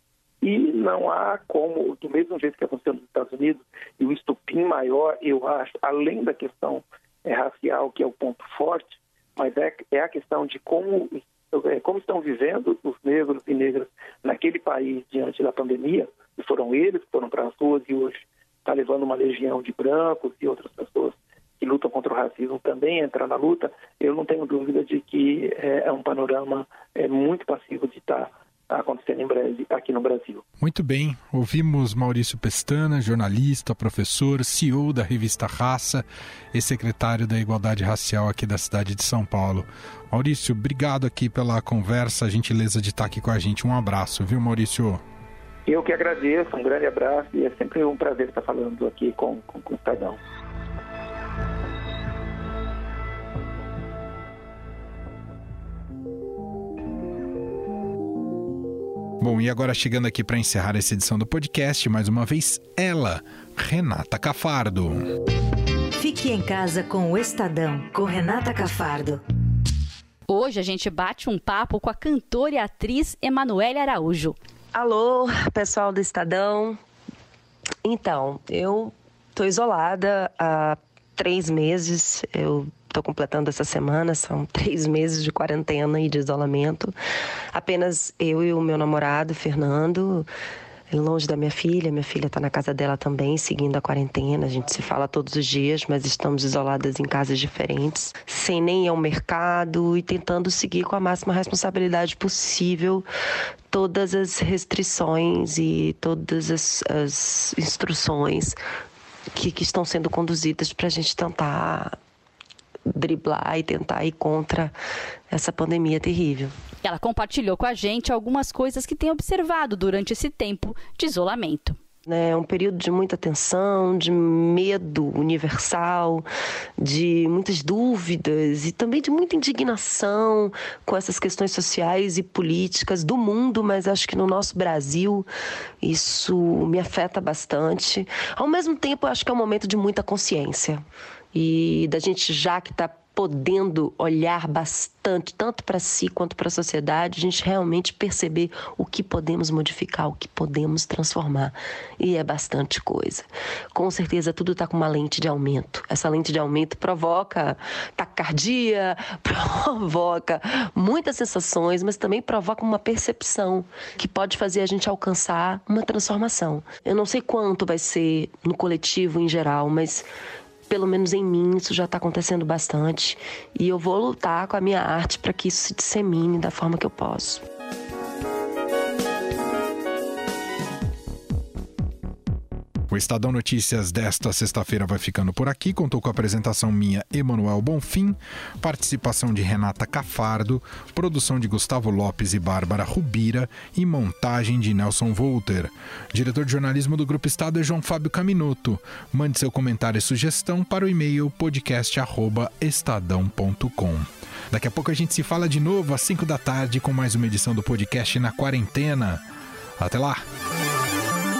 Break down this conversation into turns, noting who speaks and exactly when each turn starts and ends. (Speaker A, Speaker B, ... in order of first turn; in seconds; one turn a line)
Speaker A: 0.4-30.4
Speaker B: 30.6-45.0
Speaker A: 45.6-50.2
Speaker B: 59.2-65.1
Speaker C: 66.0-69.2
Speaker D: 70.3-74.3
Speaker E: 74.7-76.8
Speaker E: 77.8-86.9
Speaker E: 87.5-90.3
Speaker E: 90.9-103.0
Speaker E: 103.7-108.6
Speaker E: 109.3-112.0
Speaker E: 112.9-114.7
Speaker E: 115.3-116.5
Speaker D: 116.8-121.8
Speaker E: 122.1-126.2
Speaker E: 126.8-135.3
Speaker E: 135.8-170.1
Speaker E: 170.7-177.4
Speaker B: 182.9-209.2
Speaker B: 209.8-210.2